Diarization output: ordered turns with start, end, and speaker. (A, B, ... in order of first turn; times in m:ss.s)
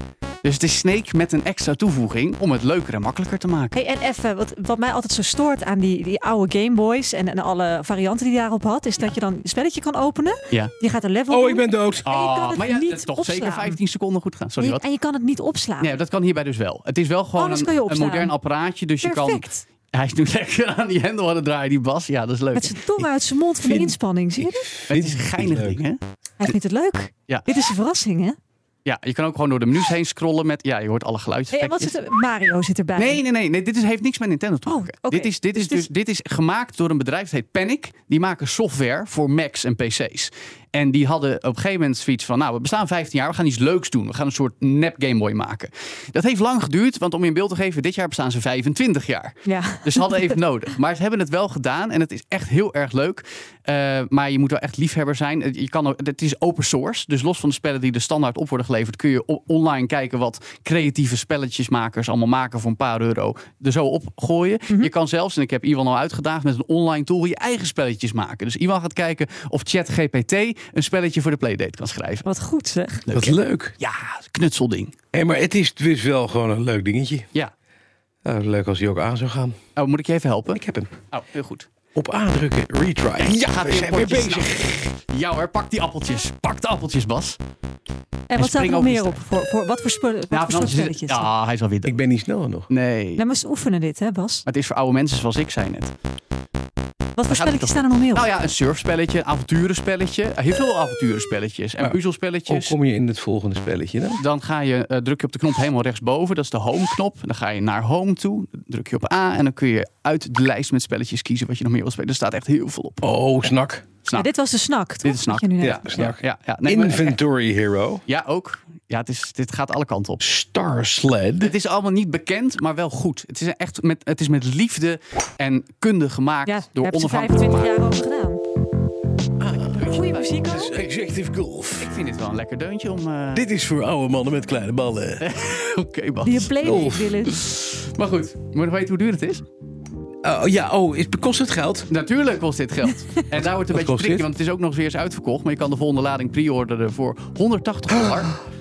0:00.4-0:03.8 A
0:03.7-0:13.8 B
0:11.3-0:12.1 C
0:12.1-0:14.8 A
0:14.6-0:15.9 B
0:15.8-0:23.0 A
0:17.4-0:18.3 B
0:19.0-0:19.6 B
0:22.6-0:24.7 B
0:23.6-0:25.8 C
0:24.9-0:26.0 A
0:26.4-0:28.4 B
0:28.8-0:32.0 A
0:31.5-0:33.2 B
0:33.0-1:12.3 A
0:34.7-0:35.9 B
0:49.5-0:50.3 B
1:12.3-1:13.0 B
1:13.1-1:15.0 A
1:13.1-1:13.7 C
1:15.1-1:17.3 C
1:18.2-1:19.6 C
1:19.8-1:21.7 A
1:20.5-1:20.9 C
1:22.0-1:24.9 C
1:23.2-1:27.4 A
1:28.3-1:31.3 B
1:28.4-1:29.2 A
1:30.3-1:32.0 A
1:31.8-1:32.7 C
1:32.7-1:33.2 A
1:33.2-1:34.4 B
1:34.5-1:35.9 A
1:37.2-1:38.3 B
1:37.3-1:42.8 A
1:42.5-1:44.2 C
1:44.2-1:53.1 A
1:53.0-1:53.8 C
1:54.0-1:54.3 A
1:54.1-1:55.8 B
1:55.0-1:57.2 A
1:55.6-1:58.0 C
1:58.1-2:00.3 A
2:00.2-2:01.5 C
2:01.4-2:07.7 A
2:06.5-2:08.4 B
2:09.4-2:11.9 C
2:09.6-2:10.4 A
2:09.7-2:10.7 B
2:11.8-2:13.5 A
2:13.3-2:15.2 C
2:15.2-2:19.4 A
2:16.2-2:17.4 B
2:16.6-2:17.2 C
2:20.2-2:21.9 C
2:21.9-2:28.4 A
2:23.4-2:24.3 C